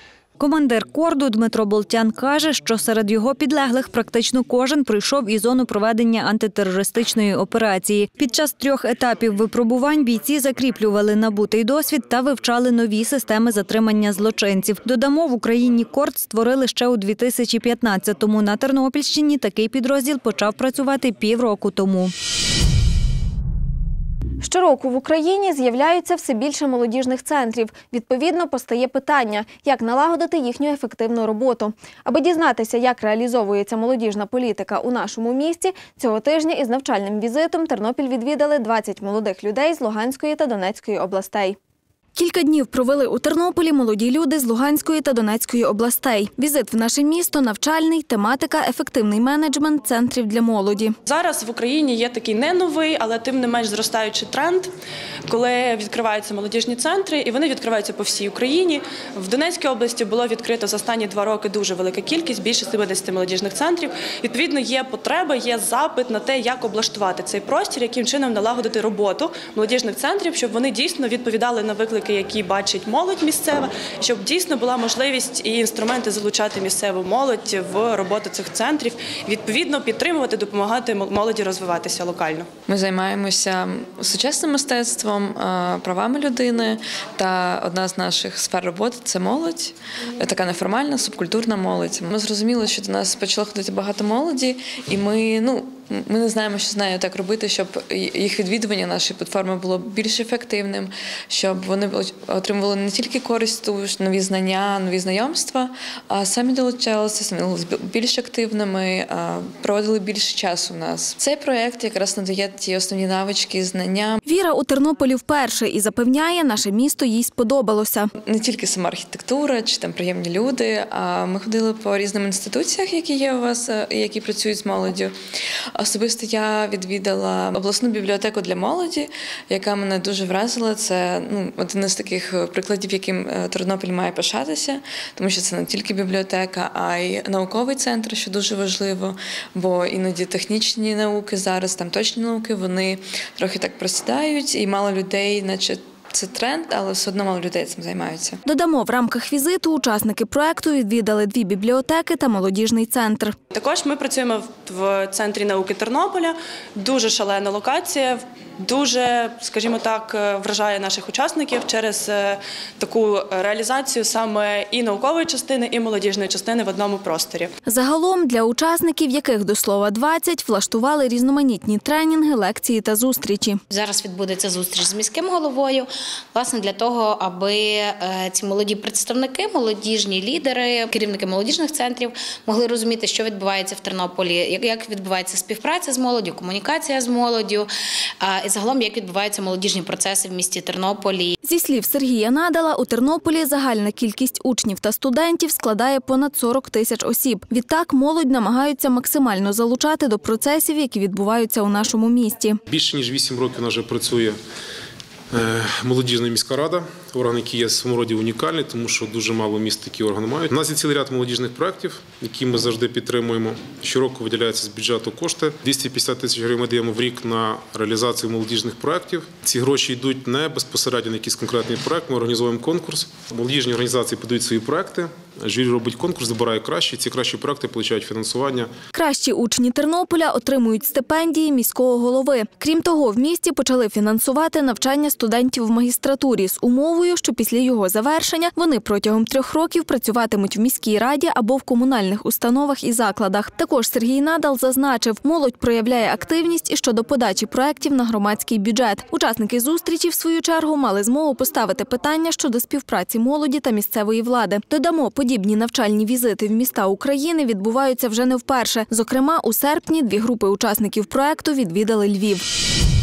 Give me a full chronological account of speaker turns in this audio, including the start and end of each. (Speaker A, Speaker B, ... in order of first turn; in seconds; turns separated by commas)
Speaker A: 0.4-22.1, Speaker B: 24.4-41.5, Speaker B: 42.1-51.0, Speaker C: 51.0-54.7, Speaker C: 55.3-82.5, Speaker D: 82.7-114.2, Speaker B: 114.2-118.1, Speaker D: 118.2-125.1, Speaker D: 125.8-148.4, Speaker B: 148.4-153.3, Speaker C: 153.5-167.5, Speaker B: 167.7-173.6, Speaker E: 173.7-191.3, Speaker B: 191.4-202.6, Speaker F: 202.7-204.4, Speaker F: 205.3-228.7, Speaker B: 228.9-262.4